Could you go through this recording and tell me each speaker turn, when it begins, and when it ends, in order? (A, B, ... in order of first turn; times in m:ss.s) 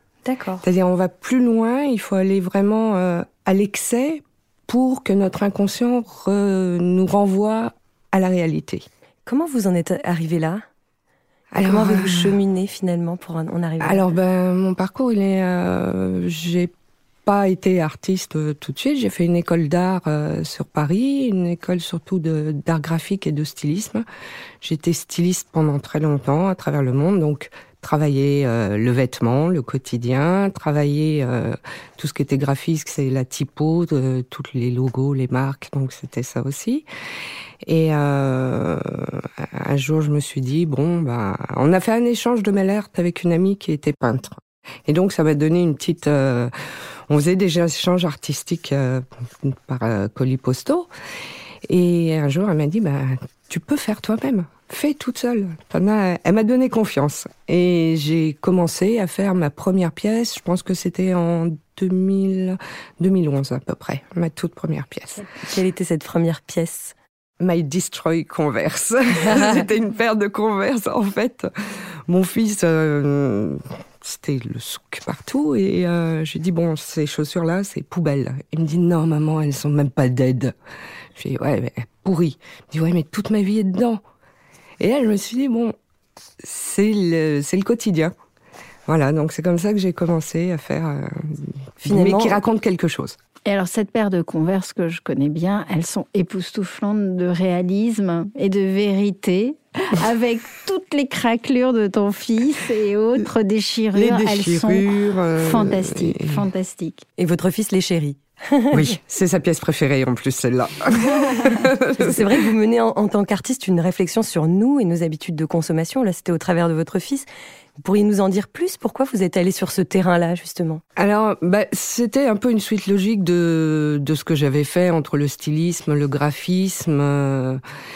0:00.2-0:00.6 A
0:00.6-0:08.8 B
0:09.2-0:10.6 A
0:11.5-0:12.4 B
0:11.6-0:14.0 A
0:13.8-0:16.7 B
0:17.2-0:24.0 B
0:24.6-0:36.9 B
0:37.6-0:46.5 B
0:47.1-0:50.9 B
0:51.7-1:05.2 B
1:05.2-1:06.9 A
1:07.4-1:11.5 B
1:12.1-1:20.5 B
1:21.2-1:24.0 B
1:24.8-1:25.8 B
1:26.4-1:28.1 B
1:28.9-1:33.2 B
1:31.8-1:32.4 A
1:33.5-1:47.0 C
1:43.9-1:46.5 B
1:47.2-1:48.8 A
1:48.7-1:52.3 B
1:52.0-1:57.3 A
1:57.8-2:00.8 A
2:01.0-2:07.6 B